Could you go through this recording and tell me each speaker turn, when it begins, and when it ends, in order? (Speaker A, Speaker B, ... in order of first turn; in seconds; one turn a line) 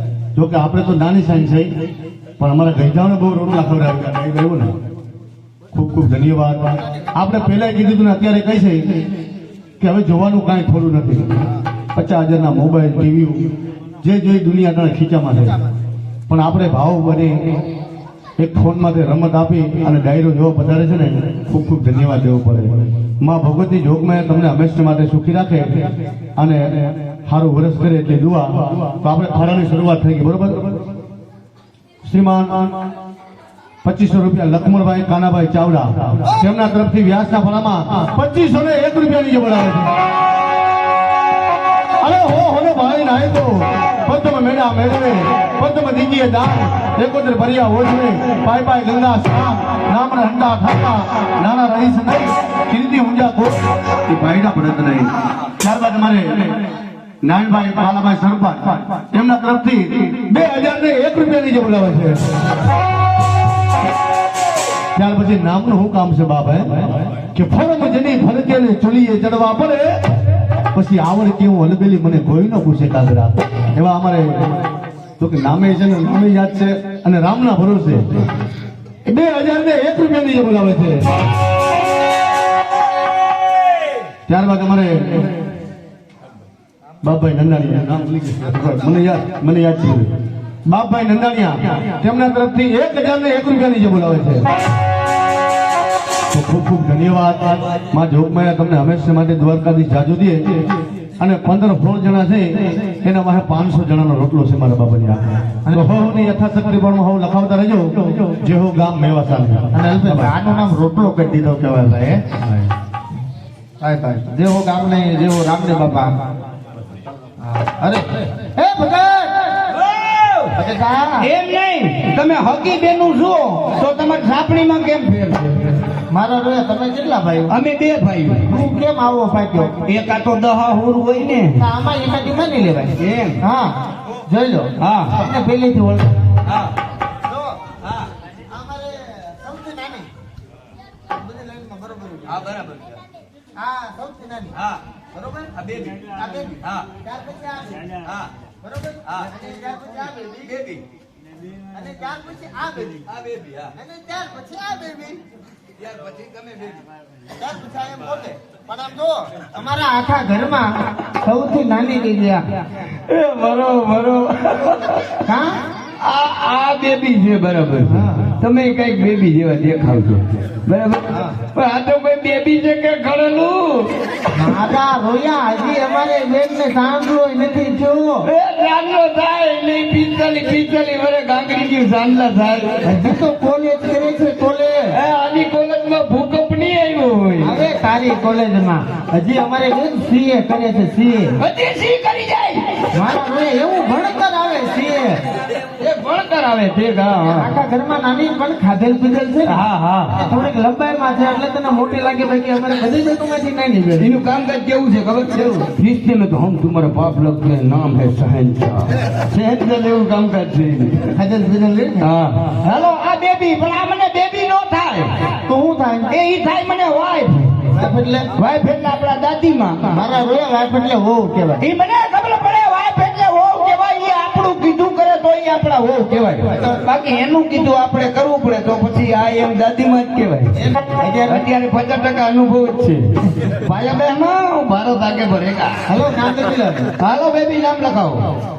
Speaker A: 0.3-1.7
Speaker A: 2.4-4.7
Speaker A: 5.7-8.8
Speaker A: 9.8-11.3
Speaker A: 11.9-13.5
Speaker A: 14.0-15.6
Speaker A: 16.3-17.4
Speaker A: 18.4-25.7
Speaker A: 26.4-30.8
Speaker A: 32.0-32.7
Speaker A: 33.8-39.9
Speaker A: 42.0-56.4
Speaker A: 57.2-62.2
Speaker A: 65.0-69.9
Speaker A: 70.7-74.3
Speaker A: 75.2-78.0
Speaker A: 79.1-81.0
Speaker A: 84.3-85.3
Speaker A: 87.0-90.1
Speaker A: 90.7-94.4
Speaker A: 96.3-100.4
Speaker A: 101.2-110.3
Speaker B: 105.7-105.9
Speaker B: 109.7-112.2
Speaker B: 113.8-116.1
Speaker B: 117.6-118.0
Speaker B: 118.5-119.7
Speaker C: 119.8-120.5
Speaker B: 120.5-121.2
Speaker C: 121.2-125.8
Speaker B: 126.1-127.5
Speaker C: 127.5-128.4
Speaker B: 128.5-129.7
Speaker C: 129.8-131.6
Speaker B: 131.6-133.7
Speaker C: 133.0-133.4
Speaker B: 134.3-136.1
Speaker C: 134.8-135.1
Speaker B: 138.5-140.1
Speaker B: 141.1-142.3
Speaker C: 142.3-143.0
Speaker B: 143.6-144.6
Speaker C: 145.5-146.1
Speaker B: 146.1-147.9
Speaker B: 148.6-150.5
Speaker C: 150.4-150.8
Speaker B: 151.7-153.0
Speaker C: 153.1-153.7
Speaker B: 153.8-155.2
Speaker C: 155.8-156.8
Speaker B: 157.4-162.4
Speaker C: 163.1-165.2
Speaker B: 165.2-165.5
Speaker C: 166.0-173.9
Speaker B: 167.9-168.2
Speaker B: 174.3-178.2
Speaker C: 178.2-182.8
Speaker B: 182.8-184.9
Speaker C: 184.9-187.6
Speaker B: 187.4-191.3
Speaker C: 191.4-192.8
Speaker B: 192.9-195.2
Speaker C: 195.8-197.5
Speaker B: 197.3-199.6
Speaker C: 199.5-200.2
Speaker B: 200.2-204.1
Speaker C: 204.0-211.1
Speaker B: 211.2-212.1
Speaker C: 212.0-215.1
Speaker B: 215.5-216.1
Speaker C: 216.1-217.6
Speaker B: 217.7-218.2
Speaker C: 218.4-219.9
Speaker B: 219.9-221.6
Speaker C: 221.6-230.5
Speaker B: 230.6-231.4
Speaker C: 231.3-235.8
Speaker B: 235.9-236.9
Speaker C: 237.0-238.2